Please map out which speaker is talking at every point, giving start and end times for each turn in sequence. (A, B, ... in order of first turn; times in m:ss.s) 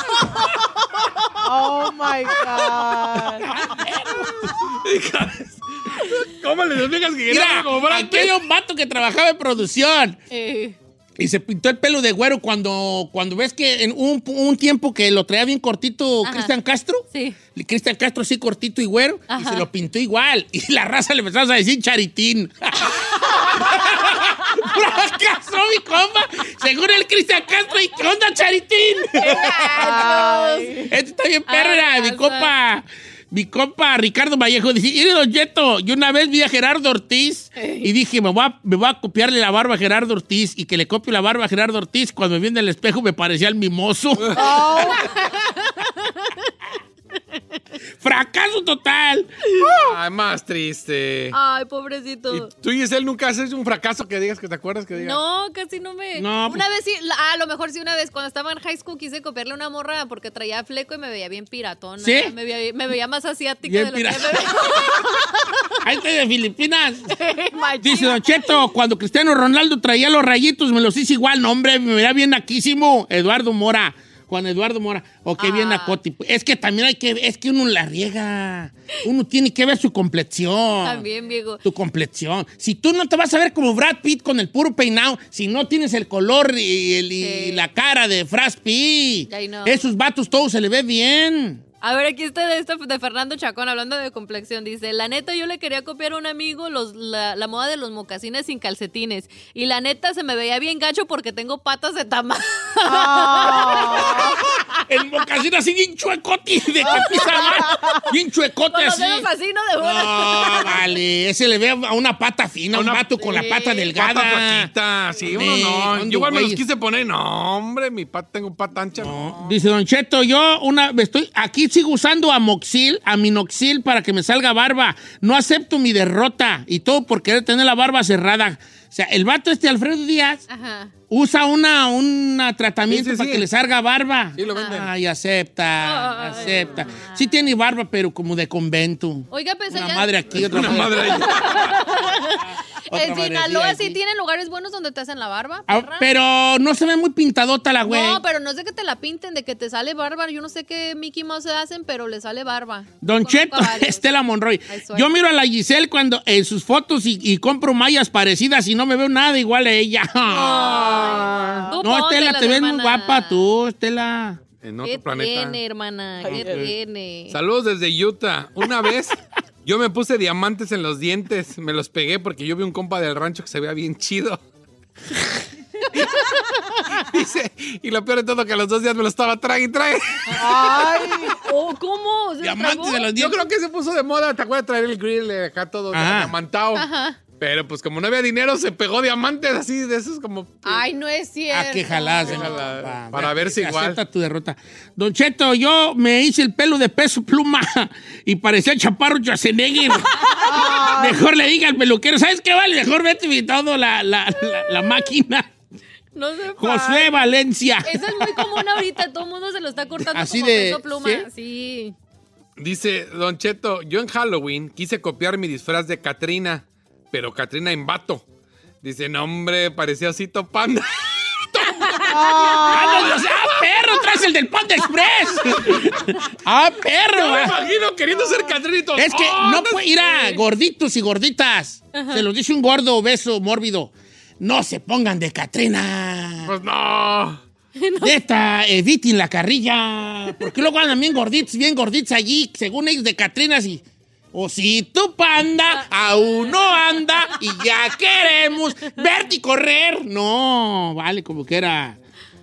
0:01.4-0:03.5 A
0:03.4-0:04.8 B
0:04.6-0:08.4 C
0:07.3-0:10.2 B
0:10.3-0:10.8 D
0:11.2-0:30.4 B
0:16.2-0:16.5 D
0:17.1-0:17.4 D
0:19.3-0:19.7 D
0:29.2-0:30.9 D
0:29.8-0:30.9 A
0:30.9-0:45.0 B
0:31.5-0:32.5 D
0:37.6-0:37.9 D
0:44.2-0:44.6 C
0:44.4-0:46.5 D
0:44.4-0:45.0 A
0:48.0-0:49.5 B
0:49.4-0:49.9 D
0:49.7-0:51.4 C
0:51.3-0:52.5 D
0:52.3-0:55.2 C
0:54.9-1:05.7 D
0:56.2-0:56.6 B
1:02.0-1:02.3 B
1:03.6-1:05.0 B
1:05.8-1:07.2 B
1:07.1-1:08.6 D
1:07.8-1:21.0 B
1:15.4-1:16.0 D
1:20.8-1:21.6 D
1:21.6-1:31.6 B
1:27.2-1:27.6 D
1:29.3-1:29.8 D
1:31.8-1:44.8 D
1:42.8-1:44.4 A
1:44.9-1:49.3 B
1:46.8-1:47.6 D
1:46.8-1:48.0 A
1:48.7-1:50.9 D
1:49.8-1:54.7 B
1:52.7-1:53.1 C
1:53.2-1:54.0 D
1:54.0-1:59.1 C
1:55.3-1:56.6 B
1:59.0-2:10.4 B
2:10.5-2:10.9 D
2:11.1-2:24.0 B
2:12.9-2:13.5 C
2:14.4-2:14.9 C
2:15.8-2:17.3 D
2:19.3-2:26.1 D
2:20.3-2:21.8 C
2:25.7-2:28.2 B
2:27.8-2:34.0 D
2:33.0-2:41.2 B
2:34.7-2:35.1 D
2:40.3-2:41.7 C
2:40.4-2:43.5 D
2:41.4-2:41.7 A
2:41.8-2:44.4 B
2:44.6-2:45.6 C
2:44.8-2:47.4 D
2:46.2-2:46.7 A
2:46.3-2:46.7 B
2:47.3-2:54.4 C
2:55.9-2:56.6 D
2:56.9-3:01.0 C
3:00.3-3:00.6 D
3:00.3-3:01.4 A
3:01.3-3:03.2 D
3:02.4-3:03.4 B
3:03.2-3:10.8 C
3:05.9-3:06.3 B
3:06.7-3:07.2 D
3:10.6-3:12.6 D
3:11.5-3:25.5 B
3:12.2-3:14.0 C
3:20.2-3:20.7 D
3:20.4-3:21.2 A
3:26.1-3:27.3 D
3:26.6-3:28.8 B
3:27.8-3:32.0 D
3:30.0-3:31.3 B
3:32.6-3:38.2 C
3:38.8-3:43.6 C
3:41.8-3:42.6 D
3:42.1-3:43.2 A
3:42.7-3:47.6 B
3:47.1-3:50.4 C
3:49.0-3:56.5 B
3:52.0-3:52.3 D
3:56.4-3:57.4 C
3:57.8-3:58.2 D
3:58.0-4:12.0 B
4:06.4-4:07.4 D